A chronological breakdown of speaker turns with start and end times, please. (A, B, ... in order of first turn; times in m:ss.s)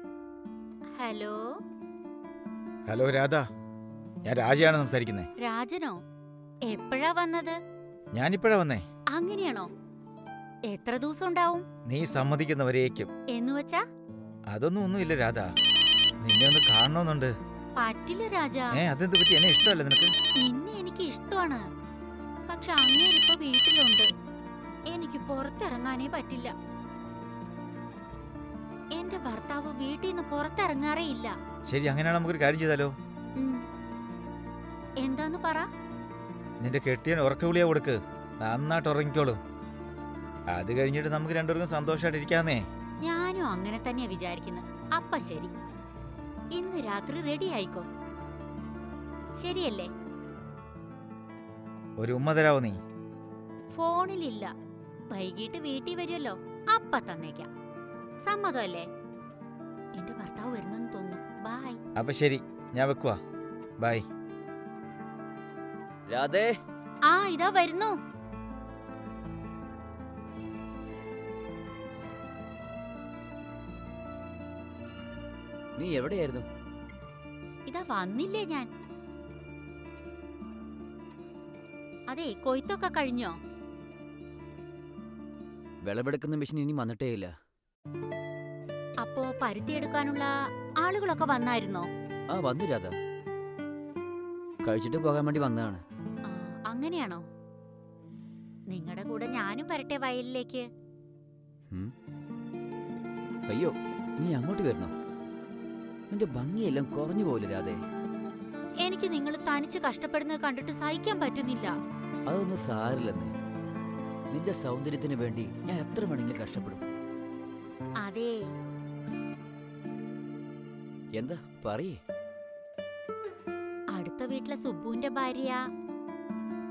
0:00.9-0:01.5 A
0:02.9-0:03.4 B
0:04.2-0:05.3 B
0:05.4-0:06.0 A
0:06.6-0:07.6 A
0:08.1-0:08.8 B
0:09.1-0:09.7 A
0:10.7-0:11.6 A
0:11.8-0:13.1 B
0:13.3-0:13.8 A
0:14.5-0:15.5 B
0:16.2-0:17.3 B
0:17.8-0:18.8 A
0:18.7-0:20.1 B
0:20.4-0:21.6 A
0:22.5-0:24.1 A
0:24.9-0:26.5 A
0:28.9-0:31.3 A
0:31.7-0:32.9 B
0:33.4-0:33.6 A
0:35.0-0:35.7 A
0:36.6-0:39.4 B
0:40.5-0:42.6 B
0:43.0-0:45.5 A
0:46.5-0:47.9 A
0:49.4-0:49.9 A
0:52.0-0:52.8 B
0:53.7-0:54.5 A
0:55.1-0:57.5 A
0:58.2-0:58.9 A
1:00.0-1:01.8 A
1:02.0-1:03.2 B
1:03.8-1:04.0 B
1:06.1-1:06.6 C
1:07.1-1:08.0 A
1:15.8-1:16.5 C
1:17.7-1:18.7 A
1:22.1-1:23.4 A
1:25.8-1:27.3 C
1:29.0-1:31.9 A
1:32.3-1:32.9 C
1:34.6-1:35.8 C
1:36.2-1:37.2 A
1:38.7-1:40.7 A
1:43.5-1:44.9 C
1:46.1-1:47.8 C
1:48.8-1:51.7 A
1:52.3-1:53.3 C
1:54.3-1:56.8 C
1:58.0-1:58.4 A
2:01.1-2:02.0 C
2:03.9-2:05.6 A